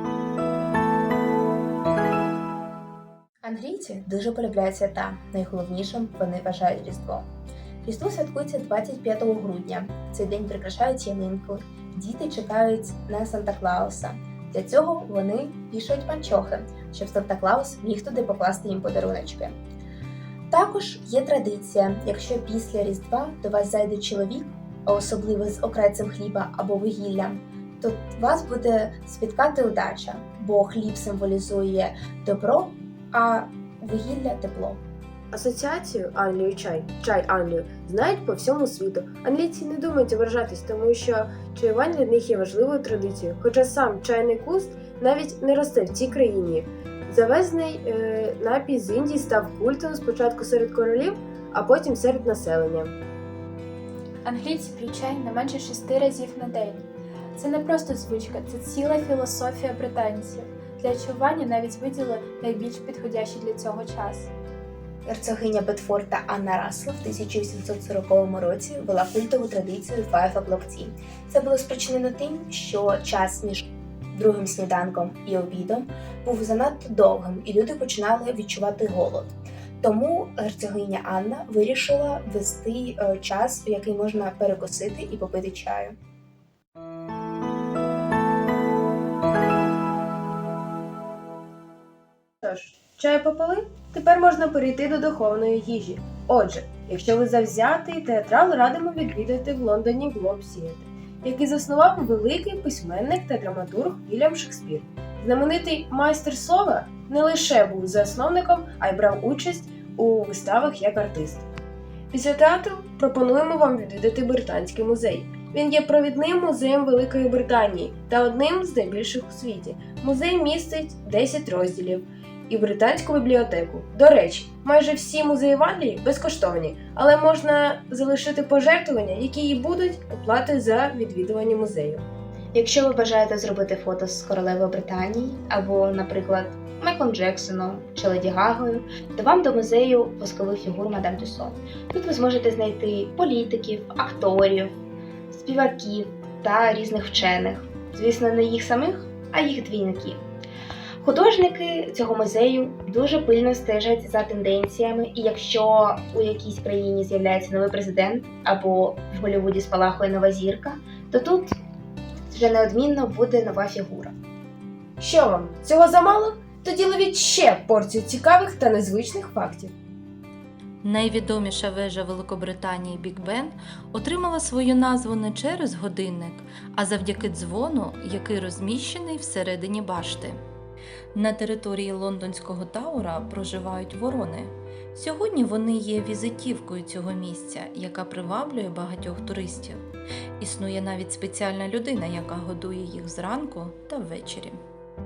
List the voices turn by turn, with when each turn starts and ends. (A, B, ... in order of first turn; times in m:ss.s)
0:03.4-0:07.2 A
0:07.8-0:19.6 A
0:20.5-0:34.8 A
0:35.3-0:53.0 B
0:54.2-1:04.3 C
1:05.0-1:25.9 A
1:32.4-1:51.4 B
1:52.1-2:12.0 B
2:12.5-2:24.7 A
2:25.3-2:30.2 A
2:31.0-2:41.6 A
2:42.3-2:44.1 A
2:45.0-2:49.7 B
2:50.8-3:00.4 D
3:01.1-3:09.8 D
3:10.4-3:14.6 D